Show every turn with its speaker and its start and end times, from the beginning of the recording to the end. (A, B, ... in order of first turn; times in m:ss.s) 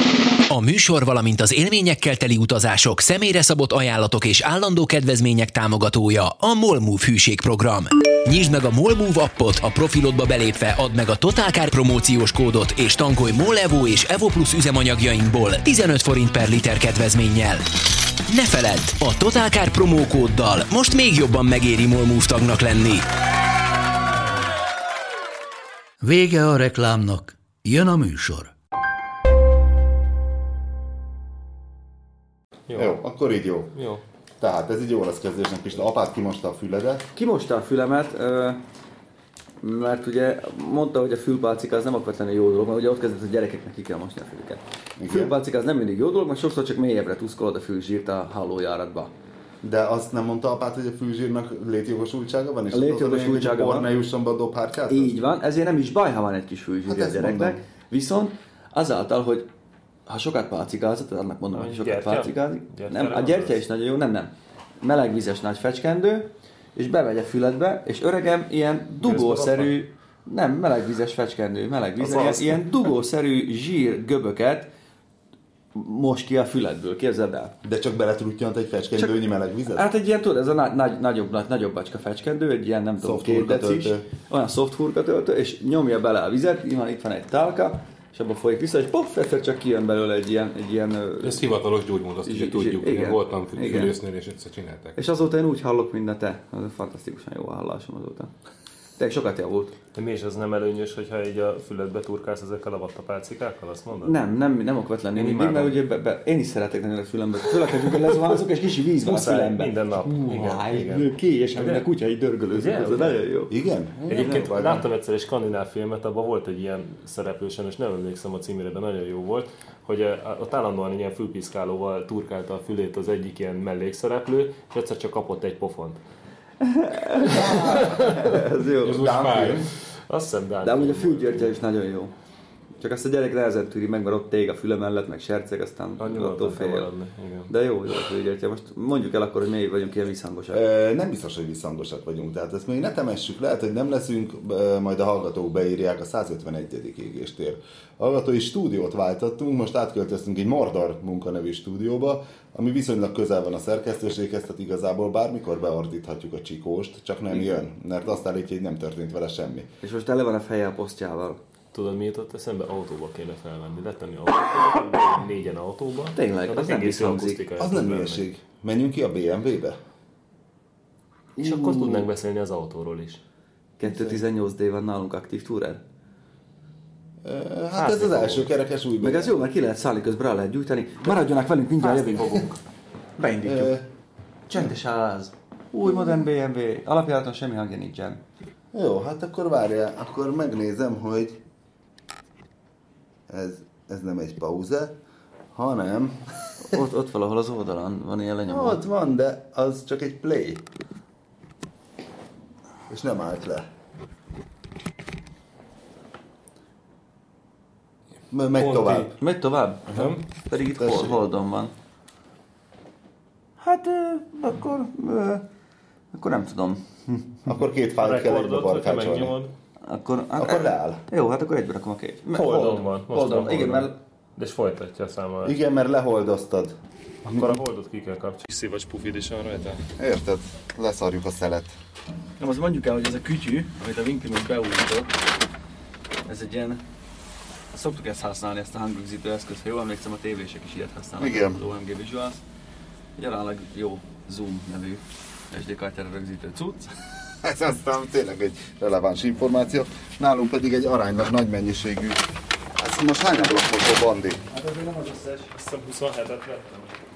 0:00.5-0:17.6 A
0:18.3-0:23.1 A
0:26.0-0:28.5 B
0:32.7-0:33.0 C
0:32.7-0:33.7 D
0:33.7-0:34.0 C
0:34.4-0:37.1 D
0:37.1-0:38.6 E
0:39.6-0:49.1 E
0:45.0-0:45.3 D
0:49.6-0:55.2 D
0:52.7-0:53.9 E
0:54.9-0:59.5 E
0:56.9-0:57.6 D
1:00.1-1:14.7 E
1:01.5-1:03.6 C
1:09.0-1:09.8 C
1:12.0-1:12.6 C
1:15.7-1:17.6 E
1:17.6-1:19.9 D
1:19.7-1:31.6 E
1:23.0-1:24.0 D
1:31.2-1:35.0 F
1:32.2-1:34.0 E
1:35.0-1:38.3 E
1:39.0-1:39.8 E
1:39.9-1:44.2 C
1:44.0-1:53.5 E
1:45.1-1:45.8 C
1:49.0-1:51.8 C
1:52.5-1:53.2 C
1:53.5-1:54.8 D
1:54.1-2:06.0 C
1:54.1-1:54.5 E
2:06.6-2:09.2 E
2:07.3-2:08.1 D
2:08.8-2:09.7 F
2:08.9-2:09.7 D
2:10.1-2:11.6 C
2:10.6-2:12.1 E
2:12.8-2:16.9 E
2:16.0-2:17.5 C
2:17.5-2:20.6 E
2:20.5-2:39.7 D
2:39.8-2:41.4 E
2:41.7-2:48.2 C
2:46.1-2:47.4 E
2:47.6-2:49.8 D
2:51.4-2:52.1 E
2:51.4-2:53.2 C
2:53.8-2:55.8 E
2:53.8-2:54.2 D
2:57.2-2:59.3 D
2:57.8-2:58.4 C
2:59.0-3:02.6 E
3:01.8-3:02.2 C
3:02.2-3:02.4 D
3:03.2-3:03.7 E
3:03.4-3:03.9 D
3:04.5-3:08.2 E
3:08.7-3:11.4 D
3:13.3-3:15.0 D
3:15.5-3:16.7 D
3:16.6-3:18.8 E
3:18.5-3:20.6 D
3:22.9-3:23.7 D
3:28.3-3:29.1 D
3:28.6-3:29.0 F
3:29.1-3:31.7 E
3:30.7-3:31.2 D
3:33.6-3:35.5 E
3:36.1-3:37.4 E
3:37.4-3:39.4 D
3:38.0-3:39.5 C
3:39.8-3:44.0 E
3:40.4-3:41.0 D
3:42.3-3:45.6 C
3:45.4-3:46.7 D
3:47.2-3:49.8 C
3:50.0-3:51.7 D
3:52.4-3:55.1 E
3:56.2-3:56.8 E
3:57.7-4:02.4 E
4:01.2-4:01.6 D
4:03.2-4:06.9 E
4:07.4-4:12.2 D
4:12.8-4:14.4 D
4:14.5-4:15.5 E
4:15.5-4:16.9 C